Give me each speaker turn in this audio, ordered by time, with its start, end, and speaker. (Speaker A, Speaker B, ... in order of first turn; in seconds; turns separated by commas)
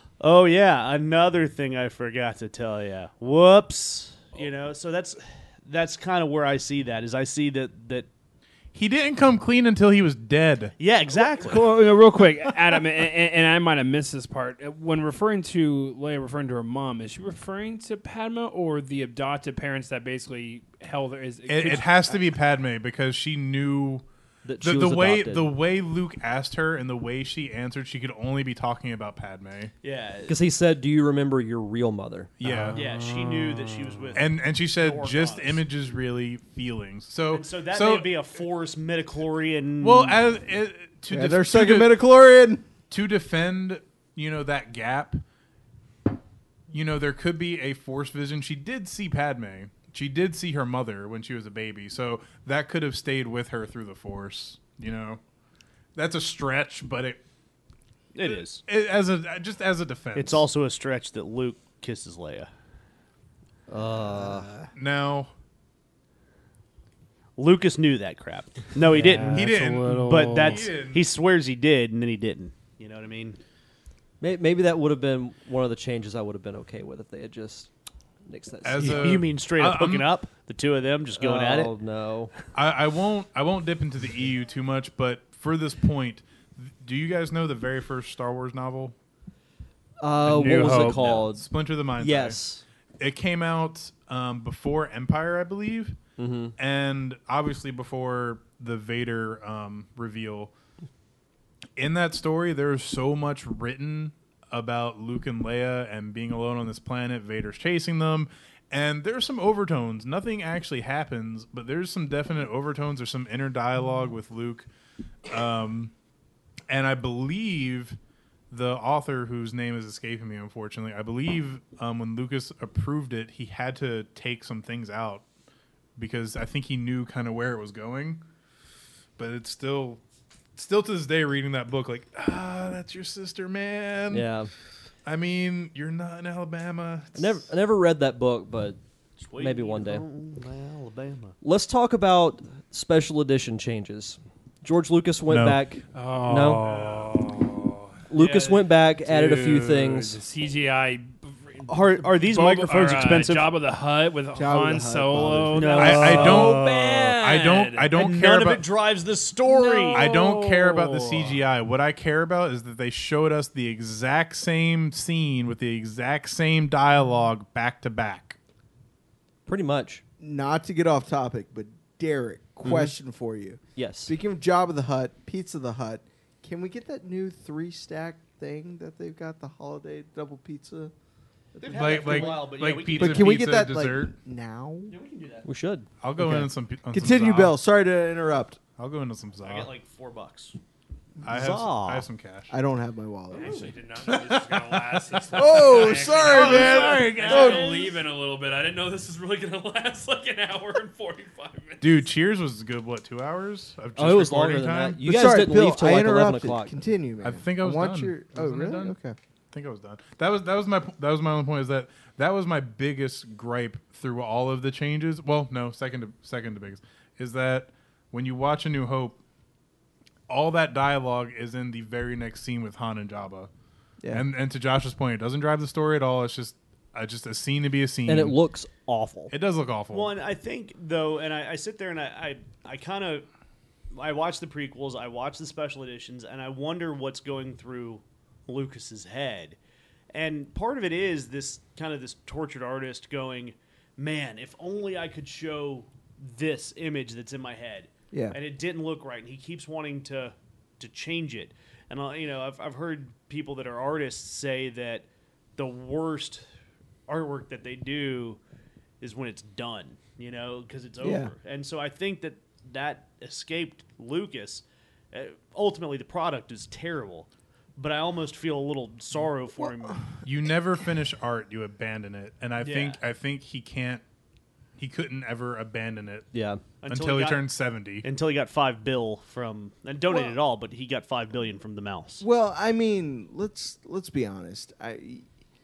Speaker A: 0.2-8.1, Speaker B: 8.7-10.7, Speaker A: 10.8-11.7, Speaker C: 11.2-22.2, Speaker B: 21.5-24.0, Speaker D: 24.4-25.5, Speaker B: 24.6-29.7, Speaker A: 29.8-30.4, Speaker D: 30.3-32.3, Speaker B: 32.4-32.8, Speaker C: 32.4-34.1, Speaker A: 32.7-35.6, Speaker B: 34.1-38.1, Speaker A: 37.3-40.2, Speaker B: 39.8-41.9, Speaker E: 41.1-42.7, Speaker B: 42.9-45.2, Speaker B: 46.7-55.2, Speaker B: 56.0-57.2, Speaker A: 58.1-58.6, Speaker B: 58.2-60.4, Speaker A: 60.1-62.5, Speaker D: 63.7-64.5, Speaker E: 64.1-64.7, Speaker B: 64.8-65.3, Speaker A: 67.4-73.4, Speaker C: 68.9-70.7, Speaker B: 69.3-71.0, Speaker D: 74.2-77.7, Speaker D: 78.2-79.2, Speaker B: 78.6-80.1, Speaker A: 78.8-81.7, Speaker D: 81.2-82.3, Speaker B: 82.5-88.9, Speaker D: 90.0-91.5, Speaker C: 90.3-91.0, Speaker B: 90.3-92.4, Speaker D: 92.0-92.6, Speaker B: 93.0-96.0, Speaker D: 96.2-96.5, Speaker B: 96.6-100.5, Speaker B: 101.8-114.7, Speaker B: 115.2-115.9, Speaker B: 116.7-118.0, Speaker B: 118.5-125.2, Speaker B: 126.0-128.2, Speaker B: 129.2-130.0, Speaker B: 130.5-134.3, Speaker D: 134.1-134.5, Speaker B: 135.0-137.4, Speaker D: 137.2-138.8, Speaker A: 139.2-141.3, Speaker D: 139.3-140.0, Speaker D: 141.4-146.7, Speaker B: 145.3-145.6, Speaker C: 145.9-147.9, Speaker A: 146.6-147.2, Speaker D: 148.1-150.2, Speaker A: 148.1-148.7, Speaker C: 149.0-157.9, Speaker A: 151.7-153.5, Speaker E: 154.3-156.2, Speaker A: 155.5-157.1, Speaker B: 155.8-158.6, Speaker A: 157.9-160.1, Speaker C: 159.4-161.4, Speaker B: 159.9-168.4, Speaker D: 169.4-170.0, Speaker E: 170.2-180.9, Speaker D: 172.6-172.9, Speaker D: 173.8-174.1, Speaker E: 181.5-182.4, Speaker A: 181.6-183.4, Speaker B: 181.7-184.1, Speaker E: 182.9-184.9, Speaker A: 184.9-185.4, Speaker D: 185.4-185.9, Speaker B: 186.0-187.6, Speaker E: 186.2-188.6, Speaker B: 188.8-189.7, Speaker A: 189.4-190.6, Speaker B: 191.2-192.5, Speaker A: 191.3-192.0, Speaker E: 192.5-193.7, Speaker C: 193.3-202.0, Speaker B: 194.1-194.8, Speaker E: 195.3-197.8, Speaker A: 196.3-197.9, Speaker B: 196.3-197.5, Speaker B: 201.8-205.0, Speaker D: 203.9-206.7, Speaker E: 205.0-209.2, Speaker B: 207.2-208.9, Speaker B: 209.5-219.2, Speaker B: 220.3-223.5, Speaker B: 224.1-228.4, Speaker D: 228.1-229.3, Speaker B: 229.3-230.1, Speaker A: 229.9-233.3, Speaker A: 233.9-239.6, Speaker A: 240.1-255.1, Speaker E: 248.1-248.4, Speaker A: 255.6-256.4, Speaker A: 257.1-258.4, Speaker A: 259.0-270.1, Speaker E: 261.0-261.3, Speaker E: 269.6-270.0, Speaker B: 270.2-274.0, Speaker A: 272.6-273.0, Speaker B: 274.8-276.3, Speaker D: 276.3-276.6, Speaker A: 276.8-277.4, Speaker B: 276.9-278.0, Speaker A: 278.0-282.2, Speaker E: 280.1-280.3, Speaker E: 282.2-285.3